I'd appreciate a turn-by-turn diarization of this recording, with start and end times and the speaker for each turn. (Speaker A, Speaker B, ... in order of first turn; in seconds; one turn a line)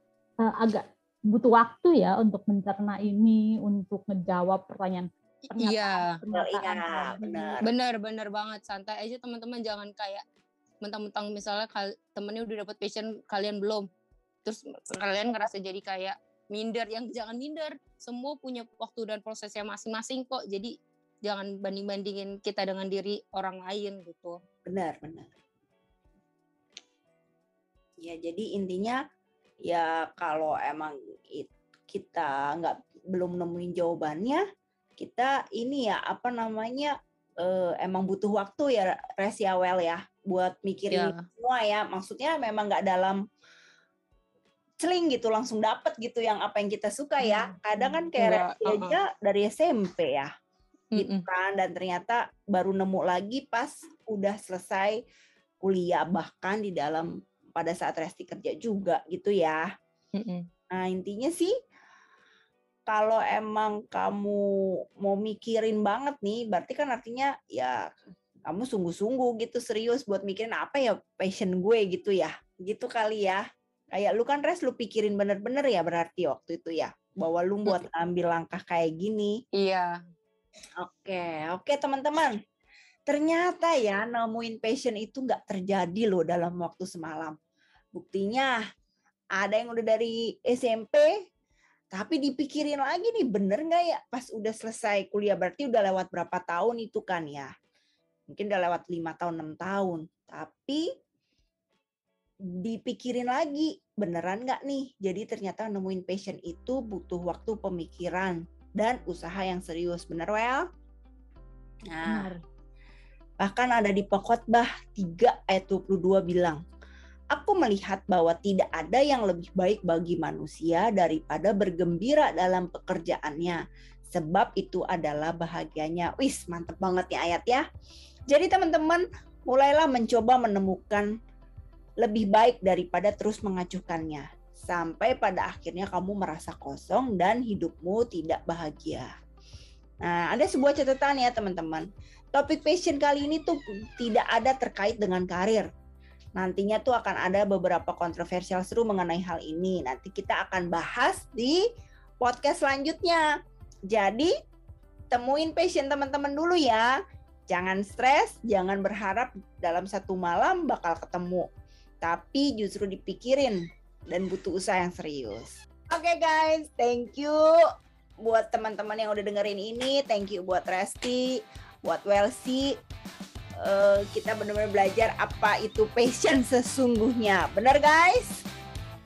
Speaker A: 0.4-7.6
Speaker B: 5.6-6.1
Speaker C: 6.3-7.7
Speaker B: 7.7-10.2
Speaker B: 10.8-13.9
Speaker B: 14.4-20.7
Speaker B: 21.3-24.4
Speaker C: 24.7-25.3
Speaker C: 28.0-29.0
Speaker C: 29.6-34.4
Speaker C: 35.0-43.2
Speaker B: 40.9-41.2
Speaker C: 44.8-50.3
Speaker B: 48.2-49.0
Speaker B: 51.0-51.2
Speaker C: 51.0-55.0
Speaker C: 55.6-59.6
Speaker B: 60.2-60.5
Speaker C: 60.7-61.5
Speaker C: 62.9-64.4
Speaker C: 65.0-67.8
Speaker C: 68.5-79.4
Speaker B: 79.6-80.0
Speaker C: 80.8-82.3
Speaker C: 83.1-87.4
Speaker C: 88.0-88.5
Speaker C: 89.4-91.1
Speaker C: 91.9-97.5
Speaker C: 98.3-100.8
Speaker C: 102.6-110.7
Speaker C: 111.9-112.3
Speaker A: 112.0-112.4
Speaker C: 113.4-116.6
Speaker C: 117.3-127.7
Speaker C: 128.3-131.1
Speaker C: 132.0-139.1
Speaker C: 140.0-145.7
Speaker C: 146.4-151.6
Speaker C: 152.2-153.3
Speaker C: 153.9-154.3
Speaker C: 155.1-156.9
Speaker C: 157.5-161.5
Speaker C: 162.0-167.5
Speaker C: 168.2-172.8
Speaker C: 173.6-178.4